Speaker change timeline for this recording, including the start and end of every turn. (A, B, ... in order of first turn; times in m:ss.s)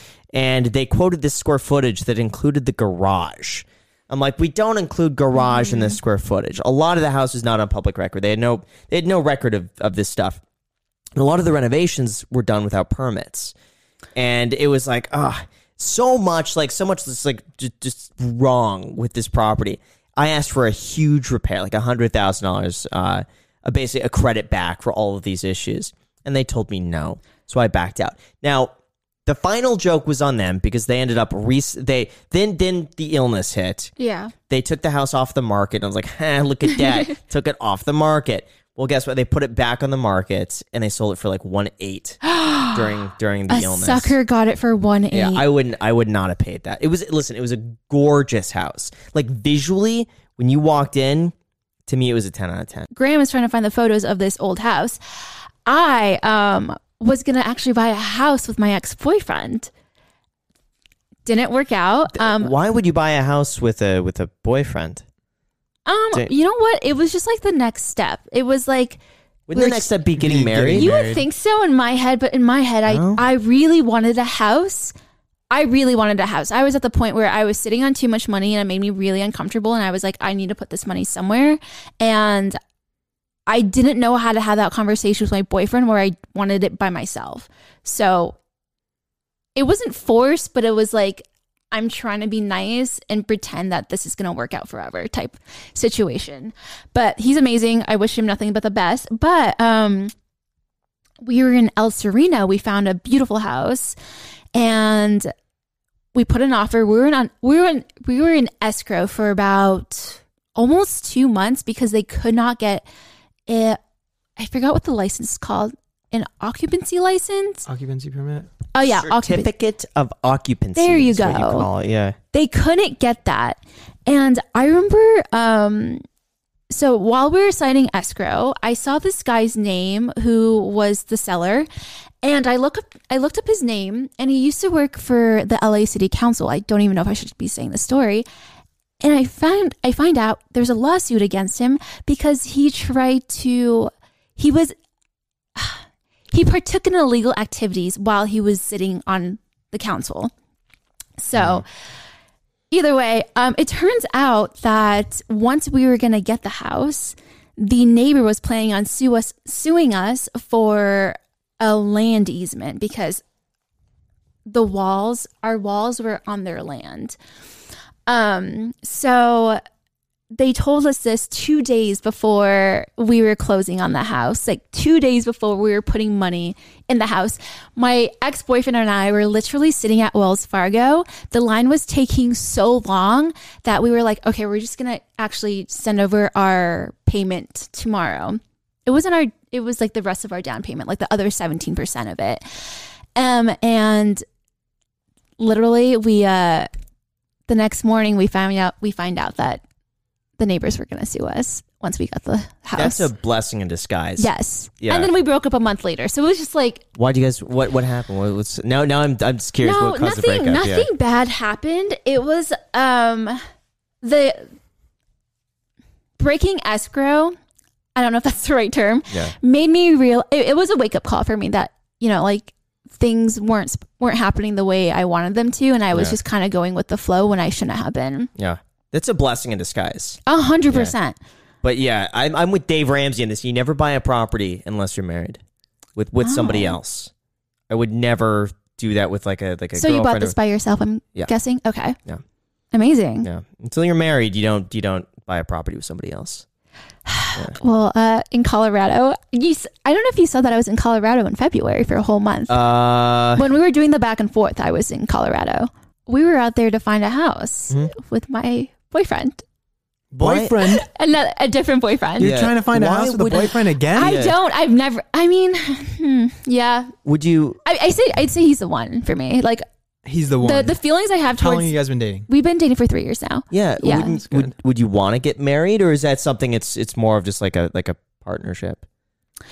0:00.3-0:10.4 A
0:05.5-0:05.9 B
0:11.2-0:13.5 A
0:14.1-0:28.7 A
0:29.2-0:33.9 A
0:34.0-0:34.3 B
0:34.5-0:42.2 A
0:42.2-0:42.9 B
0:42.7-0:44.1 A
0:43.5-0:45.4 B
0:45.1-0:51.3 A
0:51.9-0:52.9 A
0:52.9-0:55.0 B
0:55.6-0:59.7 B
1:01.2-1:02.5 B
1:02.2-1:05.0 A
1:05.8-1:09.0 B
1:09.5-1:10.9 A
1:09.5-1:09.9 B
1:10.2-1:11.2 C
1:10.7-1:14.9 B
1:12.9-1:13.2 A
1:15.5-1:22.6 B
1:23.5-1:28.4 B
1:29.6-1:40.1 B
1:41.2-1:44.0 B
1:44.5-1:45.3 B
1:46.1-1:52.8 B
1:53.5-1:53.8 B
1:54.4-1:57.7 B
1:57.6-1:58.5 C
1:58.7-1:59.5 B
1:58.8-2:02.2 A
2:00.8-2:01.7 B
2:02.3-2:06.0 B
2:06.7-2:11.7 B
2:12.2-2:18.2 B
2:19.0-2:24.7 B
2:25.5-2:30.3 B
2:31.2-2:31.6 B
2:31.4-2:31.6 A
2:32.7-2:43.2 B
2:44.4-2:47.2 B
2:48.1-2:49.6 B
2:50.3-3:14.2 B
3:15.4-3:16.7 B
3:17.5-3:19.6 B
3:20.4-3:23.1 B
3:22.8-3:24.3 A
3:24.2-3:26.8 B
3:24.8-3:25.1 A
3:27.0-3:30.9 A
3:29.6-3:33.4 B
3:34.0-3:34.5 B
3:36.2-3:37.3 B
3:38.0-3:48.3 B
3:48.4-3:50.2 A
3:50.3-3:51.2 B
3:51.6-3:55.4 A
3:56.0-3:57.1 A
3:56.2-3:56.8 B
3:57.7-4:00.3 A
3:59.8-4:02.0 B
4:02.7-4:03.3 B
4:03.2-4:06.4 A
4:07.0-4:12.6 B
4:12.5-4:13.4 A
4:13.3-4:19.4 B
4:20.1-4:20.8 C
4:20.2-4:20.7 A
4:20.7-4:22.4 B
4:22.2-4:24.2 C
4:22.2-4:24.3 A
4:23.9-4:26.9 B
4:27.0-4:27.6 A
4:27.6-4:29.6 B
4:30.0-4:30.8 C
4:30.4-4:31.7 B
4:31.4-4:32.3 C
4:32.3-4:34.2 B
4:33.5-4:38.8 A
4:34.2-4:34.5 C